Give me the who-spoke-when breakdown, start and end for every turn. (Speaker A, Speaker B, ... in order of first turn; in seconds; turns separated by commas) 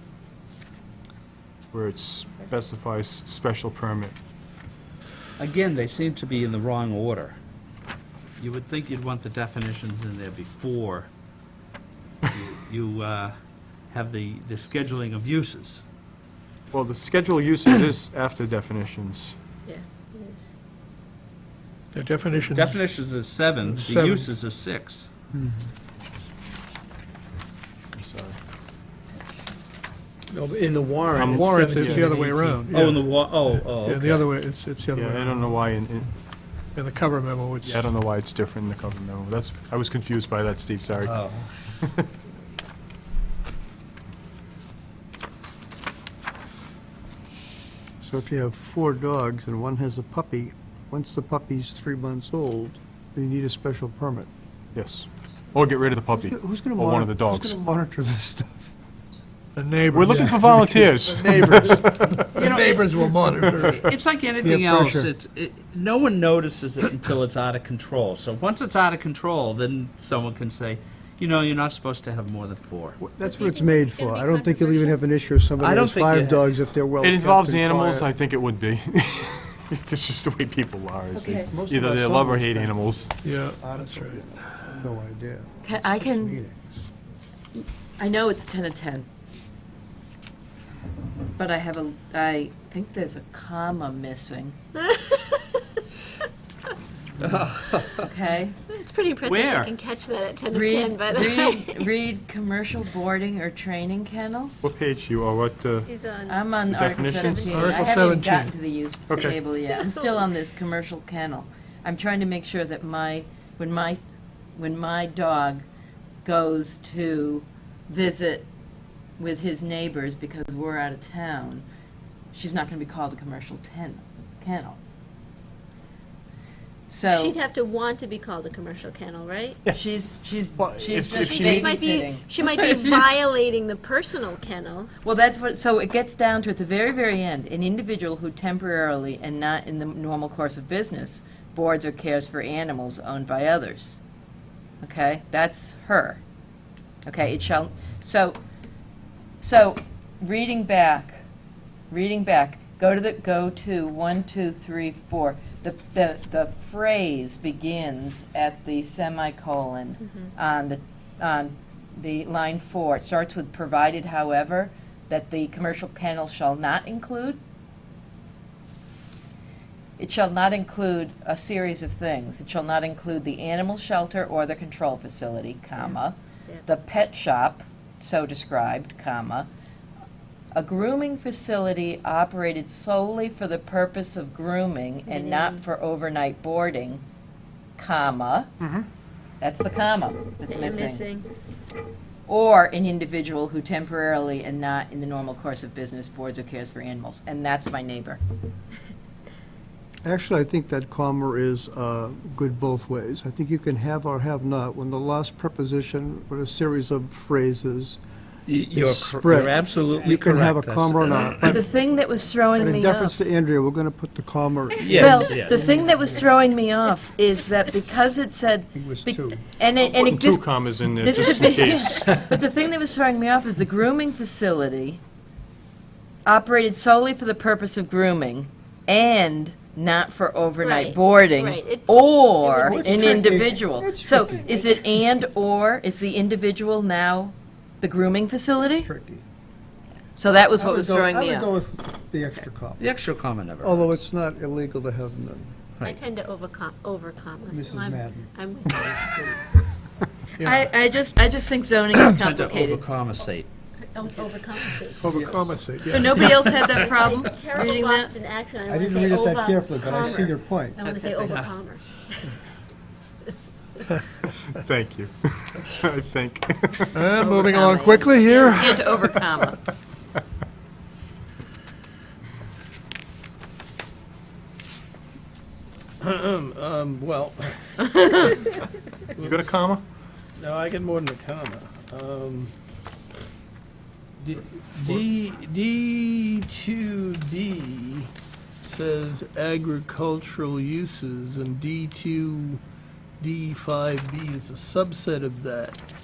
Speaker A: 1.7-4.2, Speaker B: 5.4-7.4, Speaker B: 8.4-11.1, Speaker B: 12.3-13.3, Speaker B: 13.9-15.8, Speaker A: 16.7-19.4, Speaker C: 19.7-20.4, Speaker D: 21.9-22.8, Speaker B: 22.5-25.1, Speaker D: 23.8-24.3, Speaker A: 27.9-28.4, Speaker E: 30.4-31.5, Speaker A: 31.1-32.6, Speaker D: 31.3-35.6, Speaker B: 32.7-34.2, Speaker A: 35.0-36.1, Speaker D: 36.8-37.9, Speaker A: 37.6-41.2, Speaker B: 41.0-41.7, Speaker E: 48.0-54.3, Speaker A: 54.8-57.6, Speaker E: 56.2-58.7, Speaker D: 59.6-63.8, Speaker A: 59.9-62.3, Speaker B: 62.3-73.0, Speaker A: 63.5-63.8, Speaker E: 64.4-65.1, Speaker E: 73.0-78.1, Speaker C: 73.2-75.0, Speaker B: 75.6-76.5, Speaker A: 77.0-83.1, Speaker F: 81.1-81.5, Speaker E: 81.5-86.8, Speaker D: 83.2-84.2, Speaker F: 85.6-86.4, Speaker F: 87.5-89.1, Speaker F: 91.4-94.6, Speaker C: 94.8-95.6, Speaker B: 97.2-98.1, Speaker F: 98.0-98.6, Speaker C: 98.7-101.9, Speaker B: 99.2-99.7, Speaker F: 100.5-104.5, Speaker A: 104.6-105.9, Speaker C: 105.9-107.8, Speaker F: 106.3-114.0, Speaker A: 106.7-107.7, Speaker D: 107.5-108.5, Speaker A: 109.1-109.4, Speaker F: 114.5-115.7, Speaker F: 116.2-118.5, Speaker F: 119.2-121.7, Speaker F: 122.3-124.8, Speaker F: 126.9-127.4, Speaker C: 127.0-129.6, Speaker F: 129.7-133.2, Speaker A: 130.6-131.8, Speaker C: 131.2-134.9, Speaker F: 135.0-144.0, Speaker F: 144.8-146.2, Speaker F: 147.1-148.4, Speaker F: 149.4-151.2, Speaker F: 151.9-167.4, Speaker F: 170.0-179.5, Speaker C: 175.8-176.6, Speaker F: 180.5-187.0, Speaker C: 185.1-185.6, Speaker F: 187.8-188.5, Speaker F: 189.4-191.1, Speaker C: 190.5-191.3, Speaker F: 192.3-198.2, Speaker E: 200.0-208.0, Speaker B: 208.5-211.6, Speaker E: 208.7-211.7, Speaker F: 211.4-213.2, Speaker E: 212.6-216.4, Speaker B: 214.8-215.7, Speaker F: 214.9-225.0, Speaker E: 218.7-219.5, Speaker A: 219.9-222.2, Speaker F: 226.3-238.9, Speaker C: 230.6-233.6, Speaker E: 232.6-234.5, Speaker C: 234.5-234.7, Speaker E: 238.6-239.2, Speaker F: 240.2-241.5, Speaker E: 240.5-242.9, Speaker B: 242.8-244.0, Speaker E: 243.6-245.6, Speaker C: 245.8-249.1, Speaker E: 247.5-249.6, Speaker D: 250.4-250.7, Speaker F: 250.4-252.9, Speaker B: 251.9-253.5, Speaker C: 253.9-255.1, Speaker D: 255.0-256.7, Speaker E: 255.1-256.2, Speaker F: 255.9-258.1, Speaker C: 256.8-262.4, Speaker E: 258.7-260.8, Speaker A: 264.4-267.0, Speaker D: 266.9-269.1, Speaker F: 267.1-269.6, Speaker G: 276.0-278.5, Speaker G: 279.2-279.6, Speaker A: 279.2-279.8, Speaker G: 280.4-282.5, Speaker G: 284.2-288.1, Speaker G: 288.6-292.6, Speaker G: 293.2-295.8